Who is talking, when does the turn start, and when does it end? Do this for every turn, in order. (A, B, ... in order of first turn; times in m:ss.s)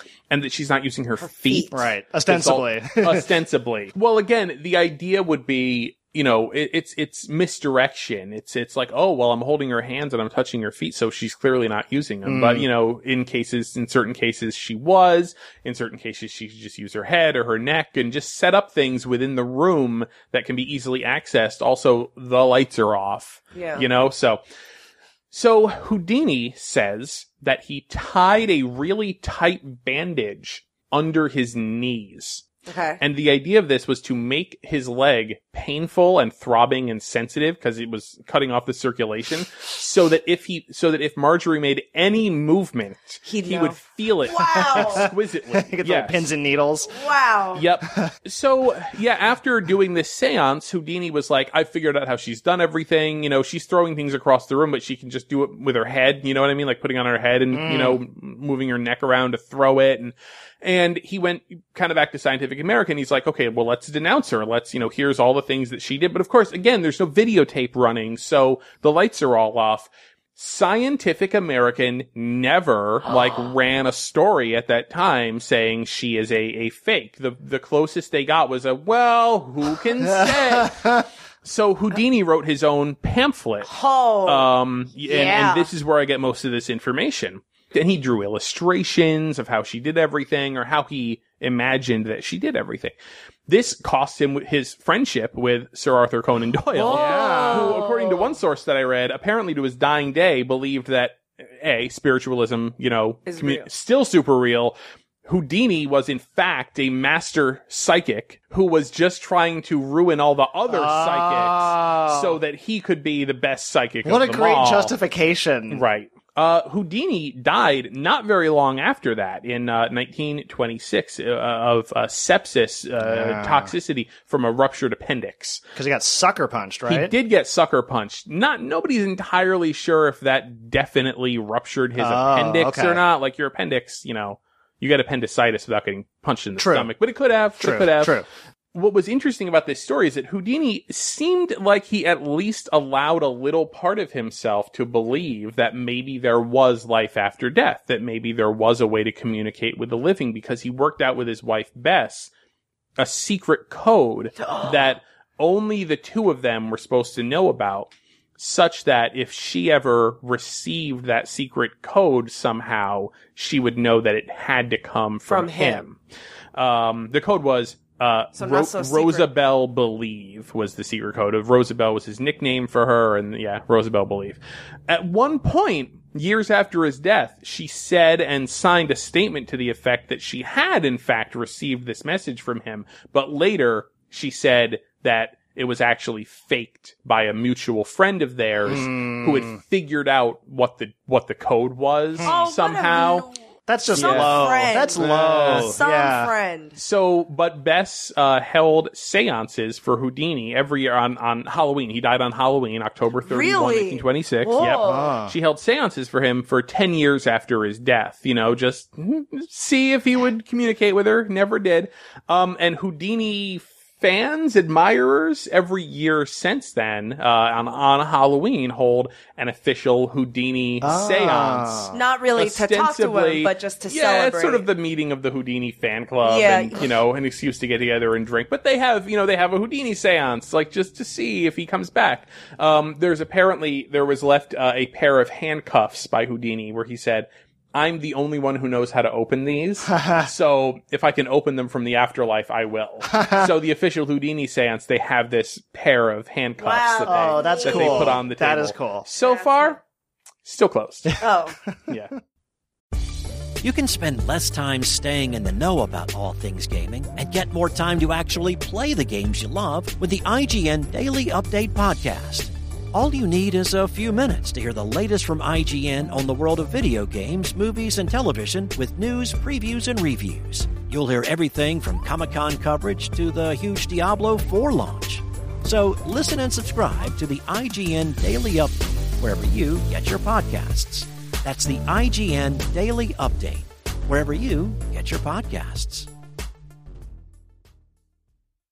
0:00.3-0:24.4 A
0:01.2-0:01.8 B
0:01.7-0:03.3 C
0:12.2-0:12.7 C
0:23.5-0:23.8 B
0:25.3-0:32.4 A
0:32.6-0:33.0 B
0:33.0-0:46.3 A
0:43.2-0:45.1 B
0:44.7-0:47.0 C
0:46.9-0:47.6 B
0:47.5-1:23.7 A
0:57.5-0:58.0 C
1:20.0-1:21.0 C
1:23.6-1:24.5 B
1:24.2-1:32.9 A
1:25.0-1:25.7 B
1:33.5-1:54.9 A
1:36.8-1:37.8 C
1:36.9-1:38.3 B
1:43.2-1:43.7 B
1:50.7-1:52.4 C
1:54.0-1:55.8 C
1:55.7-2:05.6 A
2:03.0-2:03.7 C
2:05.8-2:07.1 C
2:06.9-2:32.3 A
2:12.0-2:13.0 C
2:16.6-2:16.9 C
2:17.6-2:18.2 C
2:33.0-2:46.0 A
2:45.3-2:45.9 B
2:46.5-3:13.3 A
2:48.3-2:49.3 B
3:08.6-3:09.6 C
3:12.2-3:13.4 B
3:13.7-3:16.3 C
3:13.9-3:16.8 B
3:13.9-3:15.8 A
3:16.8-4:09.8 A
3:23.3-3:25.1 B
3:24.8-3:25.3 C
3:40.8-3:42.0 C
3:41.9-3:44.7 B
3:46.2-3:46.9 B
3:59.8-4:00.3 C
4:03.1-4:03.5 C
4:06.6-4:08.2 B
4:07.0-4:09.0 C
4:09.2-4:09.8 B
4:10.4-4:11.2 A
4:11.2-4:11.6 B
4:11.9-4:12.1 A
4:13.6-4:46.1 D